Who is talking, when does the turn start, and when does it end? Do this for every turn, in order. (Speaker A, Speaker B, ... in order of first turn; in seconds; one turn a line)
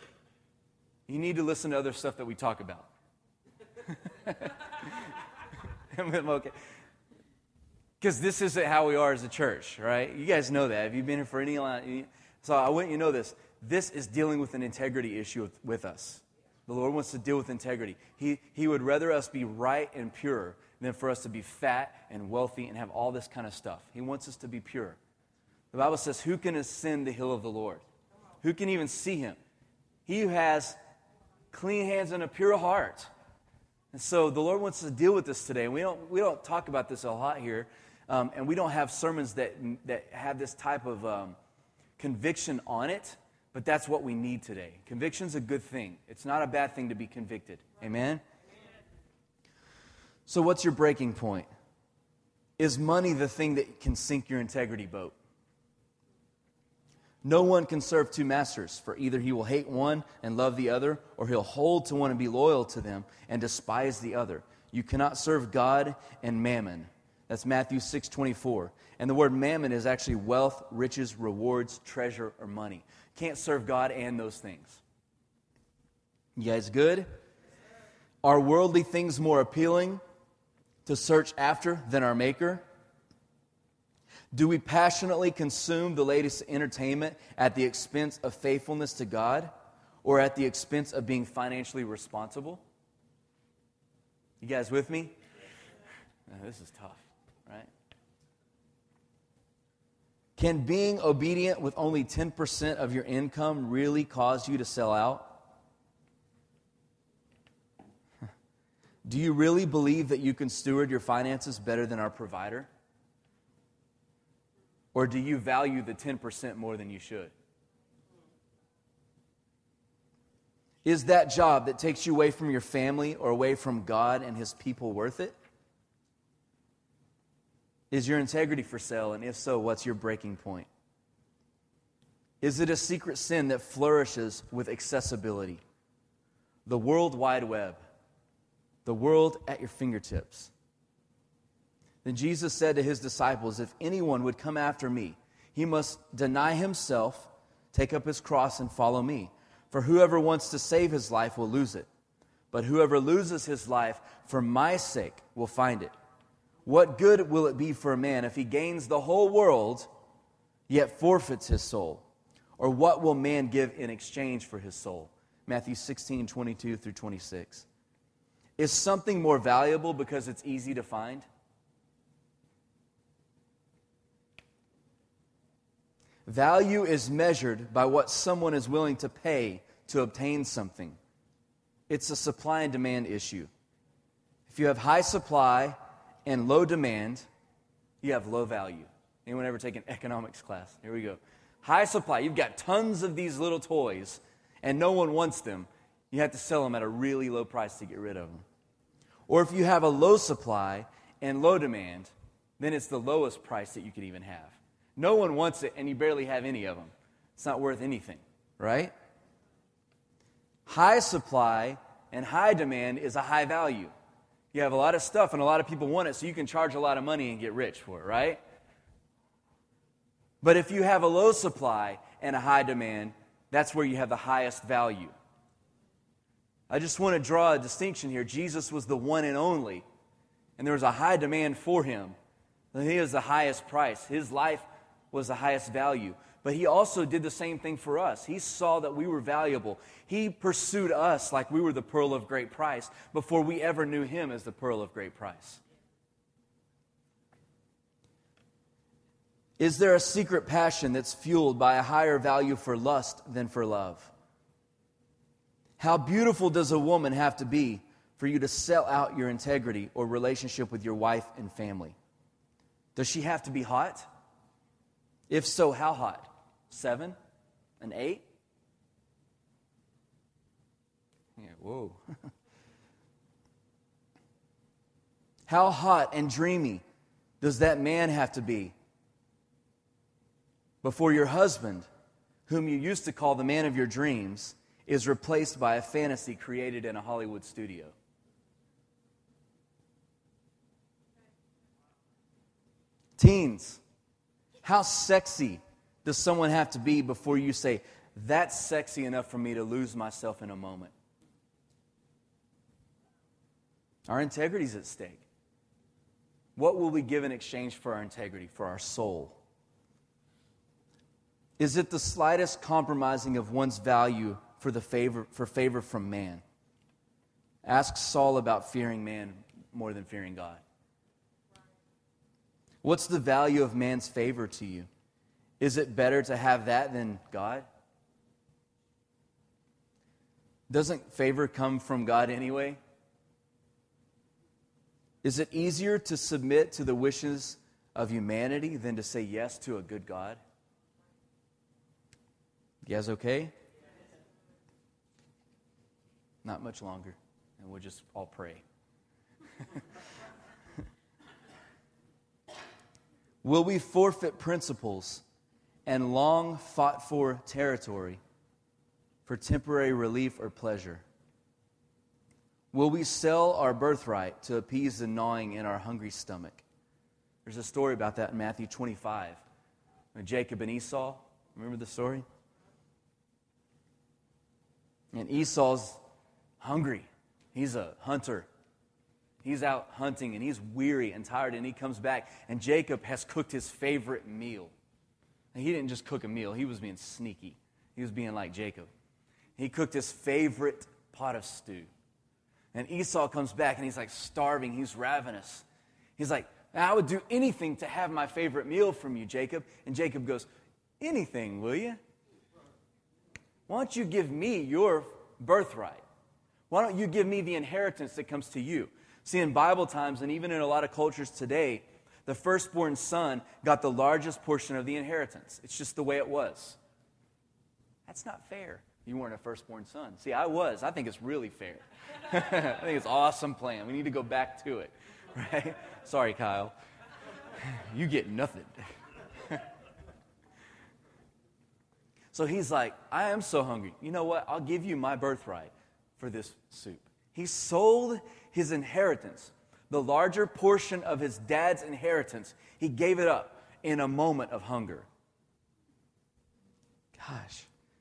Speaker A: 1.1-2.9
Speaker A: 3.9-5.1
Speaker A: 5.9-6.5
Speaker A: 8.0-25.0
Speaker A: 25.7-27.8
Speaker A: 28.4-29.4
Speaker A: 30.1-30.8
Speaker A: 31.5-33.1
Speaker A: 33.9-41.4
Speaker A: 42.0-48.2
Speaker A: 50.3-51.5
Speaker A: 52.6-55.1
Speaker A: 57.2-74.8
Speaker A: 76.4-77.1
Speaker A: 78.2-80.0
Speaker A: 80.9-82.6
Speaker A: 84.3-89.5
Speaker A: 90.0-92.6
Speaker A: 94.4-95.2
Speaker A: 96.3-97.7
Speaker A: 100.4-105.4
Speaker A: 109.0-112.7
Speaker A: 114.9-117.3
Speaker A: 120.8-125.4
Speaker A: 127.9-130.7
Speaker A: 132.4-135.6
Speaker A: 136.7-137.8
Speaker A: 138.8-140.5
Speaker A: 142.0-151.9
Speaker A: 152.5-155.9
Speaker A: 156.7-159.9
Speaker A: 160.7-162.0
Speaker A: 162.6-167.7
Speaker A: 168.6-171.3
Speaker A: 176.3-181.0
Speaker A: 181.9-183.5
Speaker A: 184.5-187.3
Speaker A: 188.0-198.4
Speaker A: 199.3-208.9
Speaker A: 210.7-213.9
Speaker A: 214.5-218.4
Speaker A: 220.4-225.1
Speaker A: 226.7-229.8
Speaker A: 230.6-232.2
Speaker A: 232.7-245.6
Speaker A: 249.6-254.1
Speaker A: 255.8-262.0
Speaker A: 263.0-264.1
Speaker A: 265.3-267.2
Speaker A: 267.8-268.2
Speaker A: 271.4-272.0
Speaker A: 275.5-276.8
Speaker A: 277.4-278.7
Speaker A: 280.8-281.9
Speaker A: 282.5-287.9
Speaker A: 293.2-293.8
Speaker A: 294.6-300.9
Speaker A: 304.1-305.3
Speaker A: 306.6-309.4
Speaker A: 311.6-316.4
Speaker A: 317.6-320.6
Speaker A: 322.8-324.9
Speaker A: 325.6-327.7
Speaker A: 330.7-332.8
Speaker A: 335.2-340.4
Speaker A: 342.8-343.5
Speaker A: 346.4-348.6
Speaker A: 353.4-355.2
Speaker A: 355.9-358.2
Speaker A: 359.3-361.0
Speaker A: 362.7-366.6
Speaker A: 367.4-369.4
Speaker A: 370.1-372.2
Speaker A: 375.1-376.0
Speaker A: 376.6-378.5
Speaker A: 379.4-384.7
Speaker A: 385.5-388.9
Speaker A: 389.6-391.9
Speaker A: 392.7-395.6
Speaker A: 396.2-400.5
Speaker A: 401.0-402.0
Speaker A: 403.7-406.0
Speaker A: 406.7-416.8
Speaker A: 418.1-426.7
Speaker A: 427.6-428.8
Speaker A: 432.3-445.1
Speaker A: 447.1-447.7